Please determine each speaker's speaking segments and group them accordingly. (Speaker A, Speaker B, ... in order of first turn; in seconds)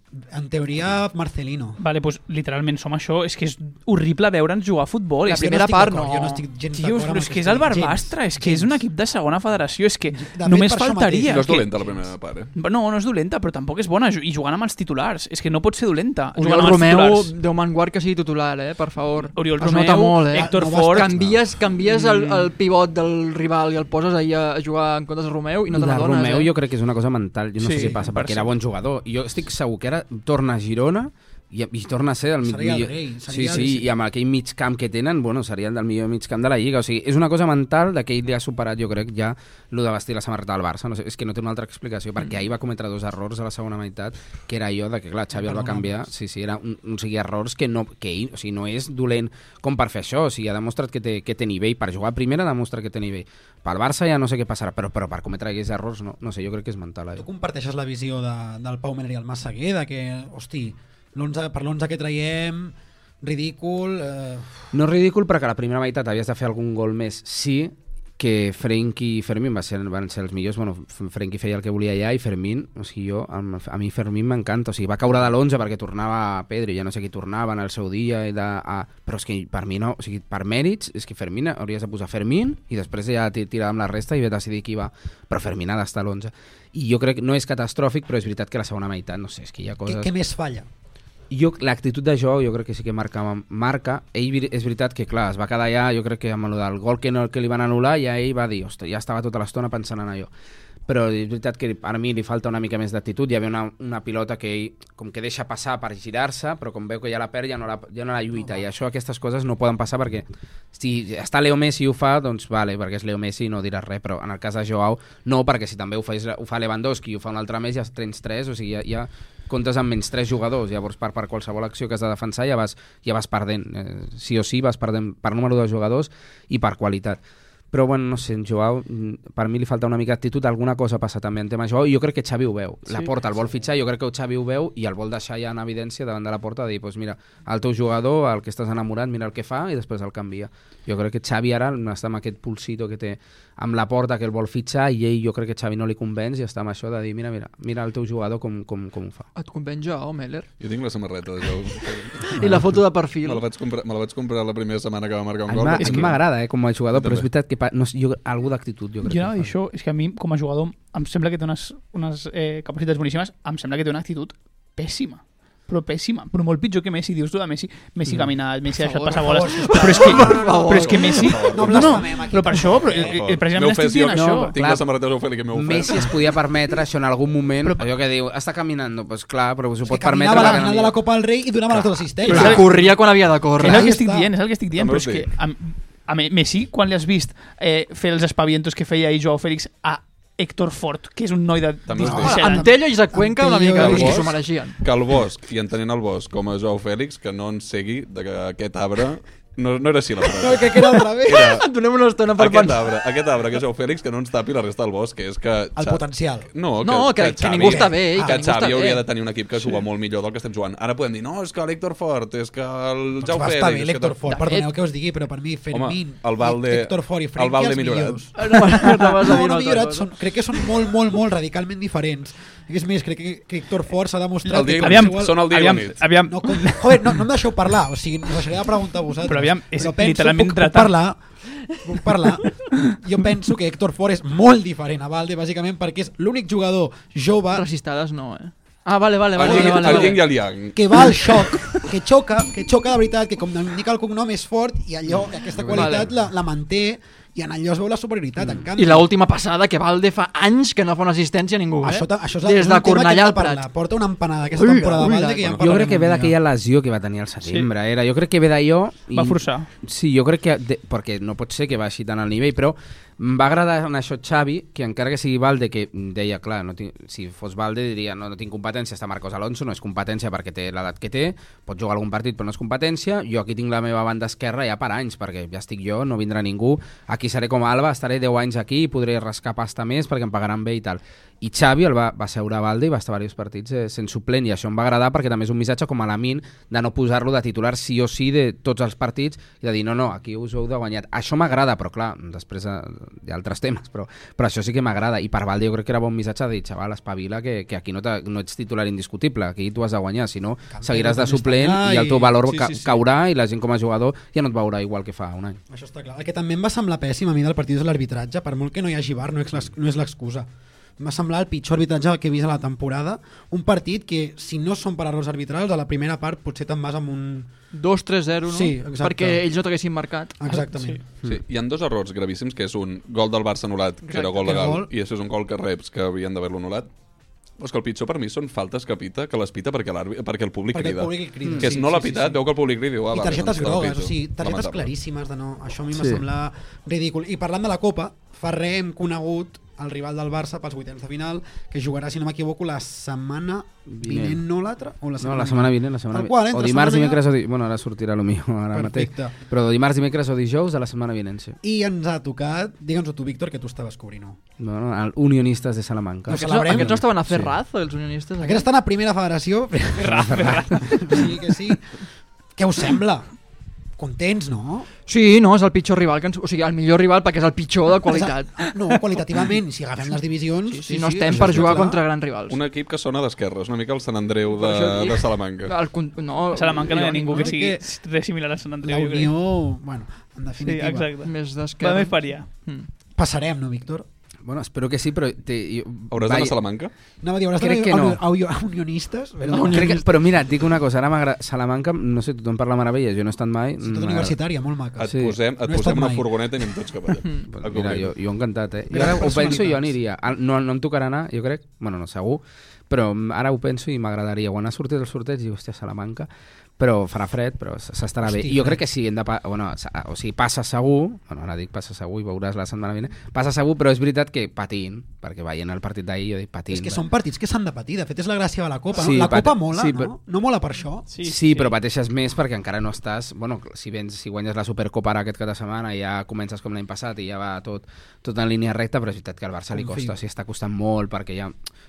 Speaker A: 0.2-1.8, 5.3-8.9, 10.1-12.1, 20.3-21.2, 32.5-33.9, 45.4-46.0, 57.2-64.7, 89.9-90.7, 168.7-173.2, 179.9-183.0, 183.6-184.3, 192.0-194.4, 200.3-201.6, 205.8-206.5, 207.6-208.4, 213.2-225.8, 226.3-237.7, 239.4-249.1, 251.8-256.4, 300.7-303.0, 305.7-310.5, 311.0-317.5, 318.5-319.4, 320.4-321.0, 324.1-324.9, 330.7-332.4, 333.1-347.2, 348.7-349.4, 351.6-354.4, 356.3-357.1, 358.4-363.4, 364.0-364.9, 368.1-372.0, 377.3-378.0, 378.8-381.1, 383.2-384.1, 387.2-390.1, 393.8-396.6, 398.9-399.9, 408.2-408.8, 416.7-421.1, 429.7-430.1
Speaker B: 1.8-5.5, 6.7-11.7, 12.6-17.3, 19.4-21.1, 22.1-22.5, 27.6-28.5, 155.8-156.2, 159.0-174.5, 180.3-180.7, 182.3-182.7, 183.6-192.7, 224.6-227.2, 229.2-231.0, 232.5-233.0, 259.1-259.7, 320.5-321.0, 360.0-361.3, 376.5-379.3, 380.6-382.5, 421.1-421.7
Speaker C: 5.2-6.4, 16.4-26.5, 149.3-150.5, 152.2-153.4, 168.9-171.3, 182.3-183.9, 192.0-194.8, 201.4-202.8, 206.8-209.1, 214.2-214.7, 218.4-220.1, 237.5-240.3, 245.7-246.1, 248.8-253.7, 254.5-255.4, 317.7-320.6, 324.1-324.5, 356.3-358.7, 365.1-368.7, 370.7-372.6, 374.5-377.5, 381.2-382.9, 389.5-389.9
Speaker D: 11.3-12.5, 150.6-152.4, 153.2-156.2, 156.9-157.3, 171.1-172.2, 172.9-176.4, 184.7-185.3, 191.9-192.4, 193.8-201.7, 202.4-214.2, 215.7-218.4, 224.5-226.1, 239.4-241.7, 321.2-326.9, 327.6-334.9, 372.5-375.7, 386.1-386.9, 395.0-398.1
Speaker E: 25.7-57.2, 64.7-90.1, 91.3-100.3, 100.9-149.3, 152.4-152.7, 155.5-159.5, 168.1-168.3, 174.1-180.9, 245.1-246.1, 248.4-248.7, 255.6-305.6, 331.4-331.8, 335.9-336.2, 343.9-344.4, 345.2-351.6, 354.6-357.6, 371.3-371.8, 384.4-386.6, 387.6-388.2, 389.5-394.4, 395.1-395.4, 397.5-417.0, 418.9-420.1, 421.2-431.6